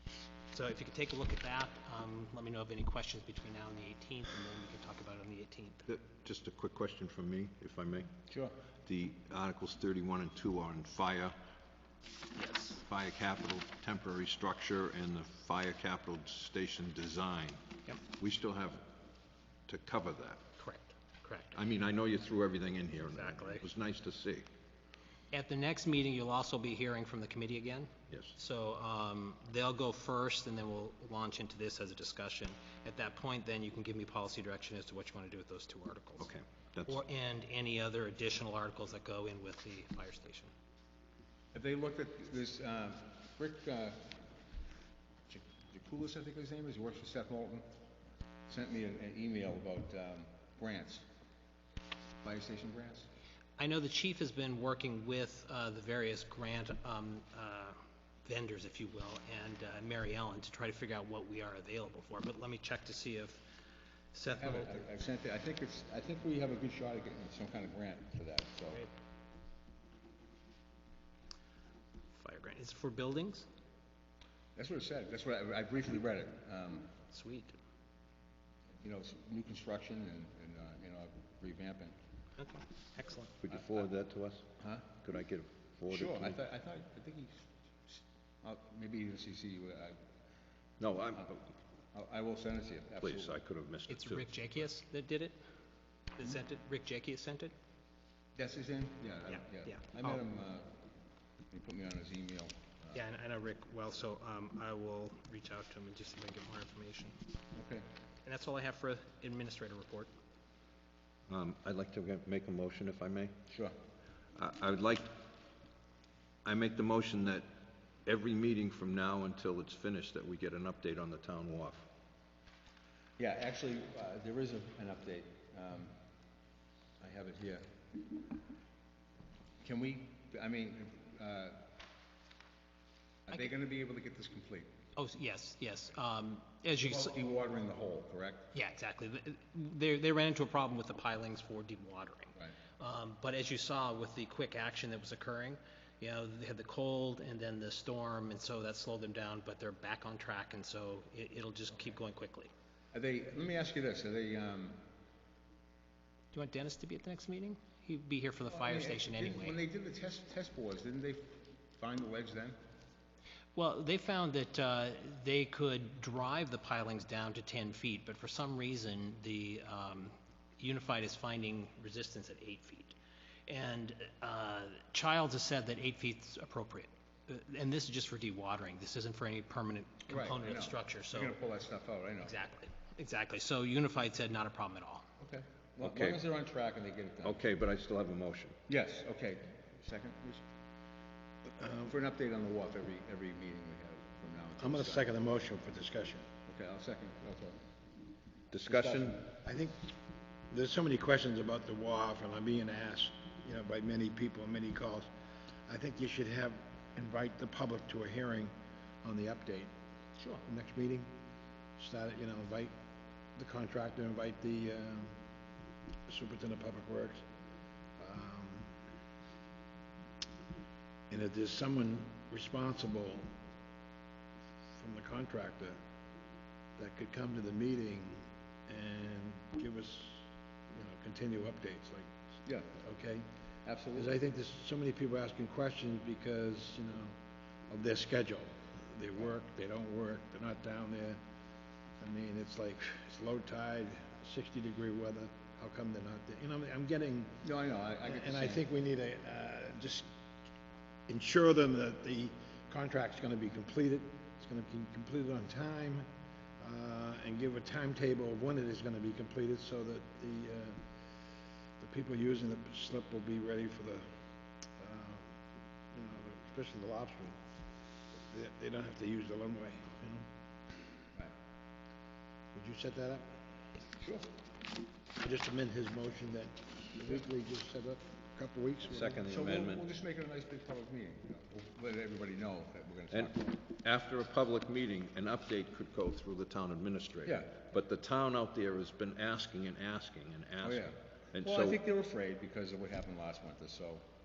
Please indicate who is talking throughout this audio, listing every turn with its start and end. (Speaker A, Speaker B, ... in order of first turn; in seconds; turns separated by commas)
Speaker A: 0.5-5.8, Speaker B: 5.8-8.1, Speaker C: 8.3-8.5, Speaker B: 8.8-11.3, Speaker A: 12.3-12.8, Speaker B: 12.8-18.8, Speaker B: 19.7-20.4, Speaker A: 20.6-21.6, Speaker B: 21.5-24.5, Speaker A: 23.1-23.6, Speaker A: 25.3-36.3, Speaker B: 36.2-37.0, Speaker A: 36.9-40.5, Speaker C: 41.5-44.1, Speaker C: 45.3-47.7, Speaker C: 48.5-51.0, Speaker C: 52.2-53.1, Speaker A: 53.6-63.4, Speaker A: 64.1-64.7, Speaker C: 64.4-68.8, Speaker A: 72.1-73.5, Speaker C: 74.5-76.9, Speaker A: 77.1-77.6, Speaker C: 78.8-81.9, Speaker A: 82.4-83.3, Speaker B: 83.4-86.4, Speaker C: 83.5-83.8, Speaker C: 84.6-84.9, Speaker C: 85.9-90.0, Speaker B: 90.8-91.4, Speaker C: 91.9-93.3, Speaker B: 93.0-94.2, Speaker A: 93.9-95.4, Speaker A: 96.1-97.5, Speaker C: 98.3-100.7, Speaker A: 99.7-100.1, Speaker C: 101.5-103.0, Speaker A: 102.9-107.2, Speaker C: 107.5-107.8, Speaker A: 108.2-110.1, Speaker B: 111.3-113.3, Speaker C: 113.5-113.7, Speaker B: 114.3-115.2, Speaker B: 116.4-117.5, Speaker B: 118.0-121.9, Speaker C: 123.2-125.9, Speaker C: 127.0-128.2, Speaker C: 129.6-131.6, Speaker C: 133.3-134.7, Speaker A: 134.9-137.1, Speaker C: 136.8-138.5, Speaker A: 138.5-152.5, Speaker C: 152.9-154.8, Speaker A: 156.3-159.6, Speaker C: 158.5-162.6, Speaker A: 163.5-172.9, Speaker A: 173.5-181.4, Speaker C: 180.1-182.3, Speaker A: 182.2-185.1, Speaker C: 185.2-187.4, Speaker B: 185.8-186.2, Speaker B: 187.2-188.6, Speaker C: 188.7-190.4, Speaker D: 191.6-191.9, Speaker C: 191.9-195.1, Speaker D: 194.6-196.2, Speaker C: 196.5-197.6, Speaker B: 198.5-199.2, Speaker D: 198.7-199.9, Speaker D: 200.5-205.1, Speaker D: 205.7-209.7, Speaker D: 210.4-211.1, Speaker D: 211.8-212.7, Speaker D: 213.3-215.2, Speaker D: 216.1-217.2, Speaker D: 218.0-218.7, Speaker D: 221.1-223.3, Speaker D: 224.8-225.8, Speaker D: 226.8-232.1, Speaker C: 232.4-232.7, Speaker D: 232.8-233.3, Speaker C: 233.6-234.1, Speaker D: 233.9-237.1, Speaker D: 237.7-241.2, Speaker D: 242.0-247.4, Speaker C: 247.4-248.6, Speaker D: 248.0-250.1, Speaker D: 251.1-256.1, Speaker D: 256.6-260.8, Speaker D: 261.8-264.1, Speaker D: 264.8-265.4, Speaker D: 265.9-267.4, Speaker D: 268.3-270.3, Speaker D: 272.5-273.3, Speaker C: 274.0-274.3, Speaker D: 275.2-279.2, Speaker B: 278.8-279.9, Speaker C: 279.2-283.6, Speaker B: 283.1-291.8, Speaker C: 287.2-287.5, Speaker C: 290.6-294.0